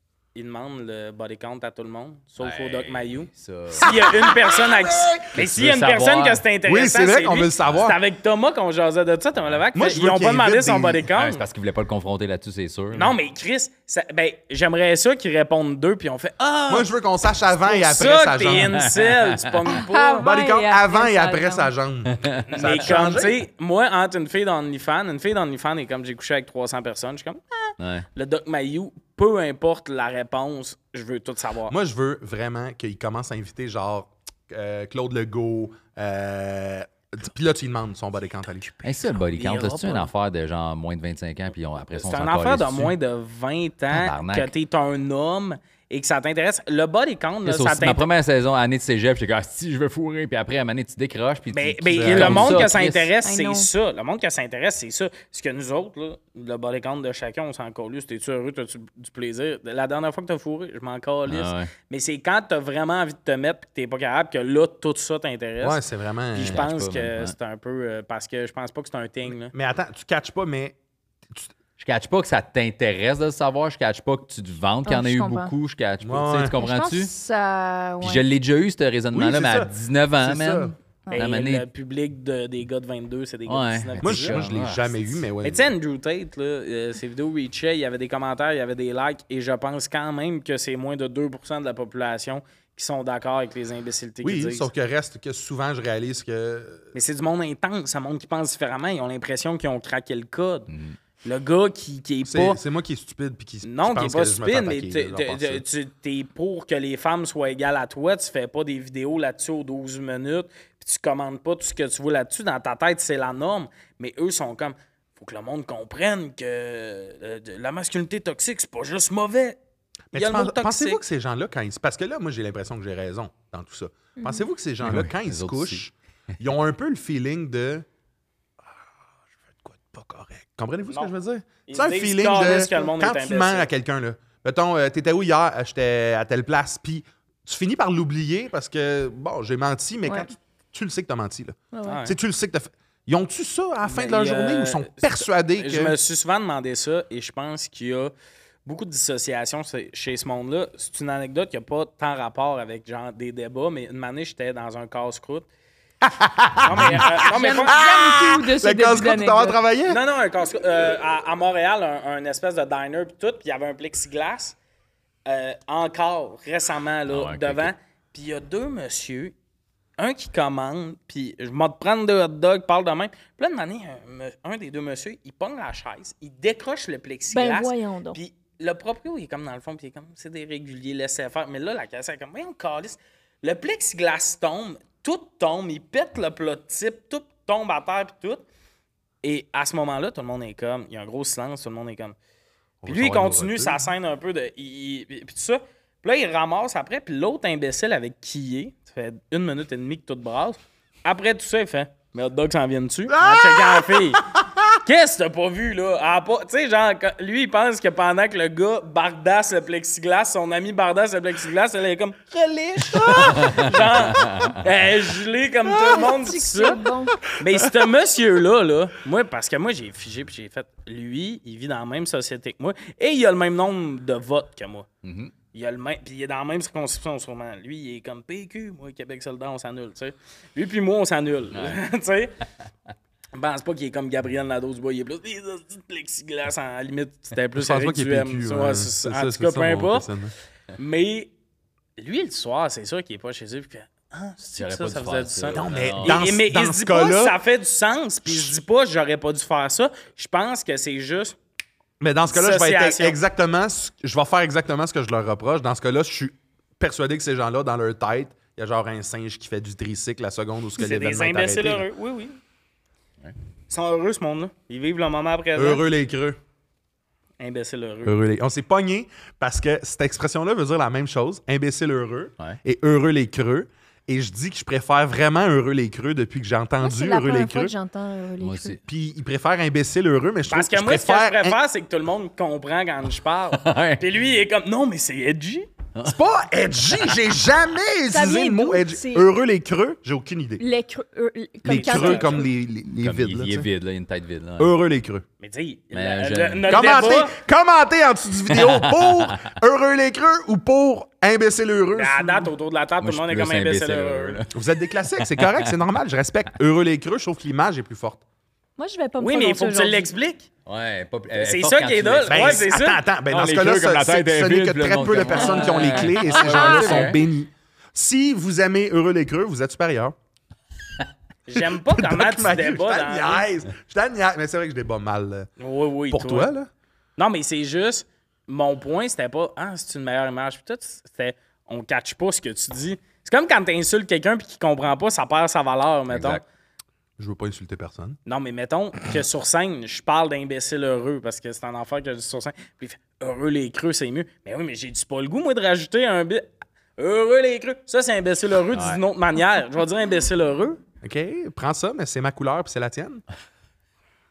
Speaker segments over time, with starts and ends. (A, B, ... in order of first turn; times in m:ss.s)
0:00.3-0:11.4 A
0:02.4-0:03.9 B
0:03.8-0:05.3 C
0:05.3-0:06.4 B
0:06.6-0:08.0 C
0:07.6-0:07.9 B
0:09.7-0:11.0 C
0:11.2-0:13.2 B
0:12.9-0:16.9 A
0:16.7-0:18.8 C
0:17.5-0:20.3 A
0:18.5-0:19.3 B
0:19.7-0:21.7 D
0:20.2-0:23.4 C
0:22.1-0:22.9 B
0:22.5-0:31.7 A
0:27.8-0:28.0 B
0:31.7-0:38.8 C
0:38.8-0:42.9 B
0:39.3-0:40.1 A
0:41.9-0:48.0 A
0:43.9-0:44.5 B
0:47.4-0:53.1 B
0:51.5-1:05.8 A
0:51.9-0:52.6 C
0:53.2-0:53.7 D
1:01.3-1:01.7 B
1:05.6-1:06.6 C
1:06.3-1:09.5 A
1:06.5-1:07.3 B
1:09.5-1:10.7 C
1:11.8-1:17.1 B
1:14.8-1:15.5 D
1:16.0-1:16.5 C
1:16.6-1:18.2 D
1:18.0-1:21.6 B
1:19.1-1:20.7 C
1:21.1-1:24.4 A
1:23.5-1:25.2 B
1:24.0-1:25.7 C
1:25.4-1:34.7 A
1:34.2-1:36.9 C
1:36.9-1:40.7 A
1:40.7-1:41.0 B
1:41.2-1:42.6 A
1:42.2-1:45.6 C
1:43.6-1:59.6 A
2:00.1-2:07.8 C
2:00.1-2:01.0 A
2:04.2-2:04.4 D
2:04.8-2:05.8 B
2:09.5-2:25.9 C
2:11.7-2:13.7 A
2:21.7-2:22.0 D
2:21.8-2:22.1 A
2:23.8-2:28.1 A
2:28.6-2:35.5 A
2:36.0-2:40.0 C
2:36.6-2:37.8 A
2:37.0-2:39.6 D
2:39.9-2:44.6 A
2:45.2-2:49.3 A
2:47.1-2:47.7 B
2:50.0-3:08.4 A
2:57.3-2:58.2 D
3:09.2-3:12.2 A
3:12.8-3:13.9 C
3:12.8-3:24.2 A
3:23.1-3:24.7 C
3:24.8-3:44.9 A
3:32.9-3:33.5 C
3:33.4-3:34.5 B
3:35.8-3:37.2 D
3:45.0-3:45.3 B
3:45.5-3:52.3 A
3:51.5-3:51.8 B
3:53.3-4:00.1 A
3:57.5-4:00.3 C
4:00.8-4:01.3 A
4:02.0-4:11.4 A
4:04.5-4:06.2 B
4:05.5-4:07.4 C
4:08.2-4:08.5 C
4:12.0-4:21.9 C
4:12.3-4:13.2 A
4:20.8-4:22.4 A
4:23.7-4:25.8 A
4:25.6-4:26.4 C
4:27.4-4:28.1 A
4:28.0-4:37.7 C
4:36.8-4:38.8 D
4:38.4-4:38.8 B
4:38.8-4:41.6 C
4:40.5-4:45.7 A
4:43.5-4:44.0 B
4:46.0-4:50.6 C
4:48.1-4:49.3 D
4:50.6-4:52.5 D
4:51.6-4:53.6 C
4:51.7-4:52.4 A
4:53.0-4:54.7 B
4:54.6-4:55.2 C
4:55.4-4:57.3 A
4:55.9-4:56.9 B
4:56.7-5:02.5 C
4:58.5-4:59.4 B
5:01.9-5:04.4 A
5:03.0-5:04.5 B
5:04.5-5:08.2 C
5:05.2-5:05.7 B
5:08.8-5:10.1 D
5:09.2-5:10.5 A
5:10.6-5:12.6 B
5:11.3-5:14.2 A
5:12.3-5:20.1 C
5:13.6-5:17.2 B
5:15.6-5:17.1 D
5:21.5-5:23.4 A
5:21.6-5:25.5 C
5:25.6-5:26.5 A
5:26.1-5:26.7 C
5:27.2-5:36.4 A
5:36.1-5:36.4 B
5:37.2-5:38.2 C
5:38.2-5:46.4 A
5:47.0-5:50.8 A
5:48.7-5:49.0 B
5:51.0-5:53.2 C